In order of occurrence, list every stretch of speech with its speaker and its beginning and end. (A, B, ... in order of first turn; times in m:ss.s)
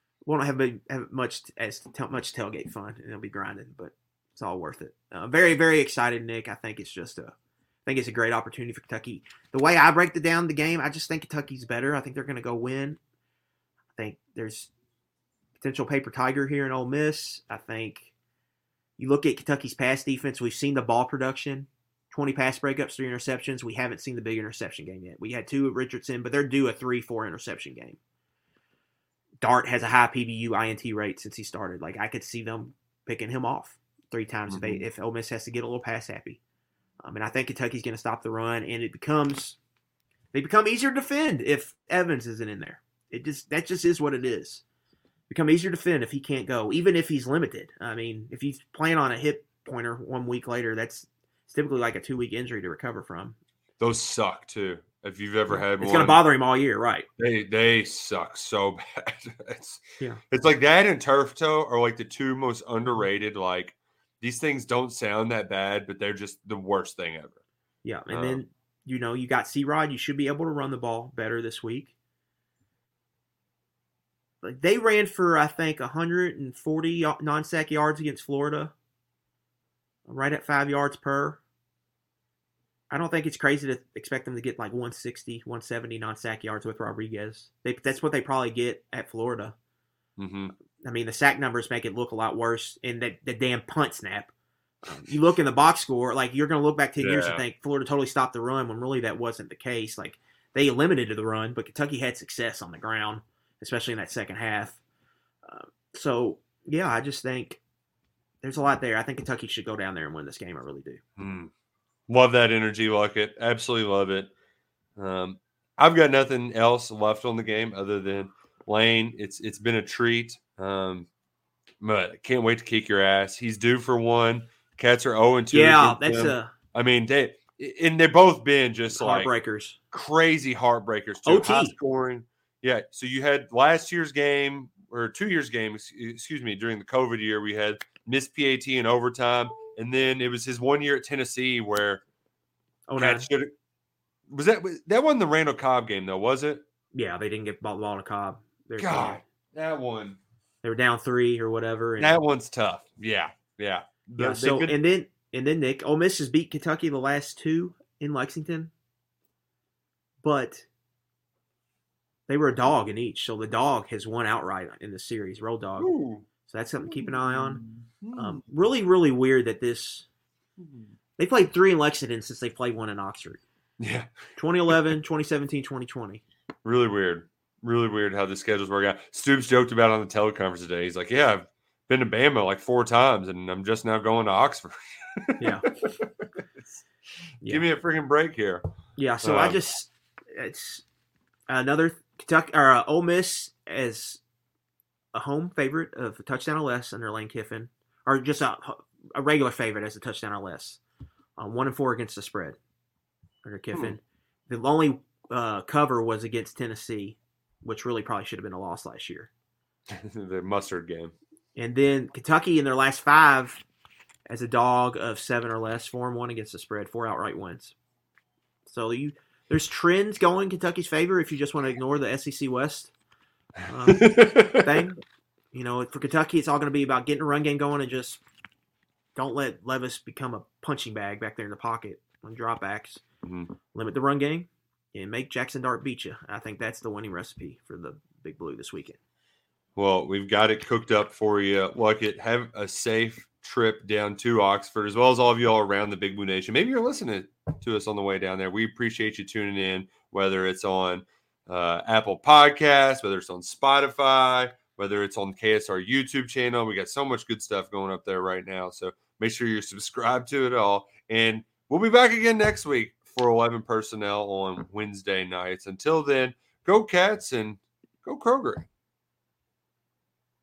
0:00.3-0:07.3 A
0:07.9-0:13.0 A
0:14.0-0:14.7 A
0:15.6-0:18.1 A
0:19.0-0:28.0 A
0:29.4-0:36.4 A
0:34.5-0:34.8 B
0:37.0-0:39.6 A
0:40.3-0:44.6 A
0:45.3-0:53.4 A
0:53.8-0:56.2 B
0:55.5-0:57.1 A
0:57.2-1:07.4 B
1:07.8-1:11.9 A
1:08.1-1:08.4 B
1:14.4-1:18.7 A
1:20.1-1:21.4 A
1:22.9-1:29.6 A
1:30.2-1:30.5 B
1:30.8-1:34.3 A
1:34.9-1:44.8 A
1:37.0-1:37.4 B
1:45.5-1:47.6 A
1:48.4-1:51.0 A
1:51.2-1:51.5 B
1:52.1-1:54.3 B
1:55.0-2:01.1 B
2:01.8-2:09.3 B
2:05.5-2:06.5 A
2:08.9-2:09.8 A
2:09.9-2:22.0 B
2:11.3-2:11.7 A
2:22.9-2:23.3 A
2:23.0-2:23.5 B
2:24.3-2:26.6 B
2:26.9-2:29.2 A
2:28.8-2:30.2 B
2:30.6-2:32.2 A
2:32.0-2:34.8 B
2:34.2-2:38.7 A
2:40.2-2:40.7 A
2:42.3-2:45.9 A
2:45.8-2:46.3 B
2:46.5-2:47.6 A
2:46.9-2:48.4 B
2:48.2-2:50.1 A
2:50.6-2:50.9 B
2:51.2-2:53.4 A
2:53.8-2:54.1 B
2:54.4-2:56.2 A
2:56.6-3:06.0 B
3:05.4-3:05.7 A
3:07.4-3:08.7 B
3:09.0-3:10.8 A
3:09.2-3:09.6 B
3:11.5-3:14.2 A
3:15.1-3:20.8 A
3:21.4-3:22.6 A
3:23.4-3:29.3 A
3:29.9-3:31.2 B
3:31.6-3:33.6 A
3:34.3-3:37.8 A
3:38.7-3:42.9 A
3:43.7-3:45.0 A
3:43.9-3:44.7 B
3:45.5-3:48.2 A
3:49.2-3:53.0 A
3:53.2-3:53.5 B
3:53.7-3:59.0 A
3:59.8-4:28.7 B